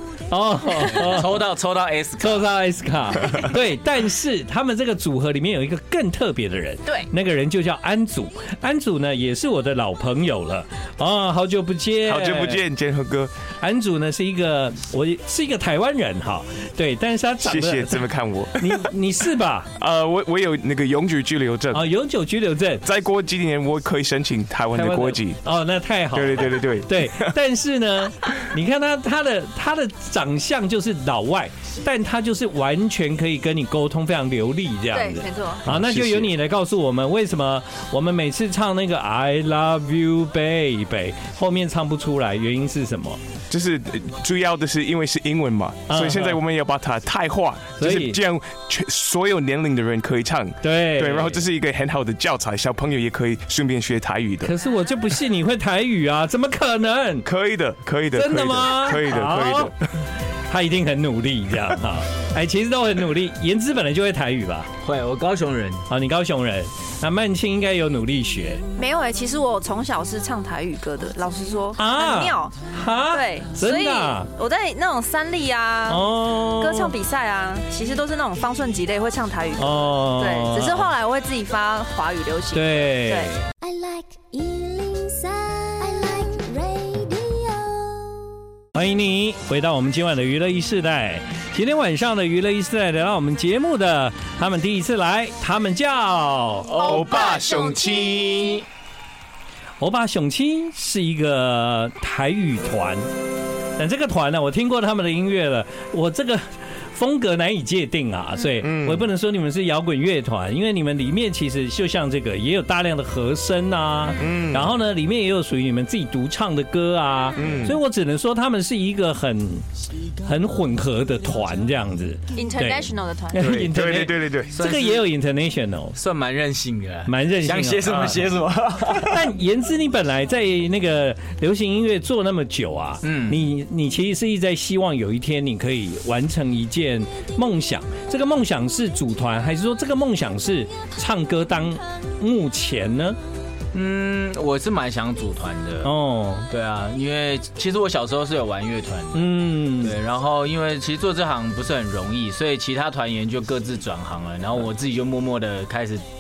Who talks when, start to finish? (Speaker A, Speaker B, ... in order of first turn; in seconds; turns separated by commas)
Speaker A: 0.3-1.4, Speaker B: 0.9-2.5, Speaker A: 2.2-12.6, Speaker C: 12.1-13.3, Speaker A: 13.6-19.7, Speaker C: 17.4-18.9, Speaker C: 19.8-21.9, Speaker A: 21.7-22.8, Speaker C: 22.8-25.4, Speaker A: 24.7-43.2, Speaker C: 26.1-27.3, Speaker D: 34.9-35.6, Speaker C: 35.7-36.3, Speaker C: 43.5-54.5, Speaker A: 45.9-46.4, Speaker A: 47.8-48.2, Speaker A: 50.6-51.4, Speaker A: 54.4-57.3, Speaker C: 57.2-60.0, Speaker A: 58.1-59.7, Speaker A: 60.5-64.7, Speaker B: 64.8-65.8, Speaker A: 65.9-68.6, Speaker D: 68.7-72.6, Speaker A: 71.8-74.3, Speaker D: 73.1-83.5, Speaker A: 75.9-76.9, Speaker A: 79.6-80.9, Speaker A: 82.5-83.4, Speaker E: 83.5-88.1, Speaker A: 88.7-97.0, Speaker D: 96.7-98.6, Speaker C: 96.8-98.7, Speaker A: 99.8-103.1, Speaker A: 103.8-119.7, Speaker C: 108.6-109.0, Speaker C: 114.2-114.7, Speaker D: 117.3-117.7, Speaker C: 117.4-117.8, Speaker A: 120.2-126.0, Speaker D: 122.3-123.7, Speaker C: 123.4-124.5, Speaker B: 124.5-125.1, Speaker B: 126.0-129.2, Speaker A: 127.1-128.0, Speaker C: 127.9-128.3, Speaker A: 129.0-143.2, Speaker B: 133.0-133.4, Speaker B: 143.7-145.9, Speaker A: 145.8-146.5, Speaker B: 146.5-156.0, Speaker A: 149.1-149.9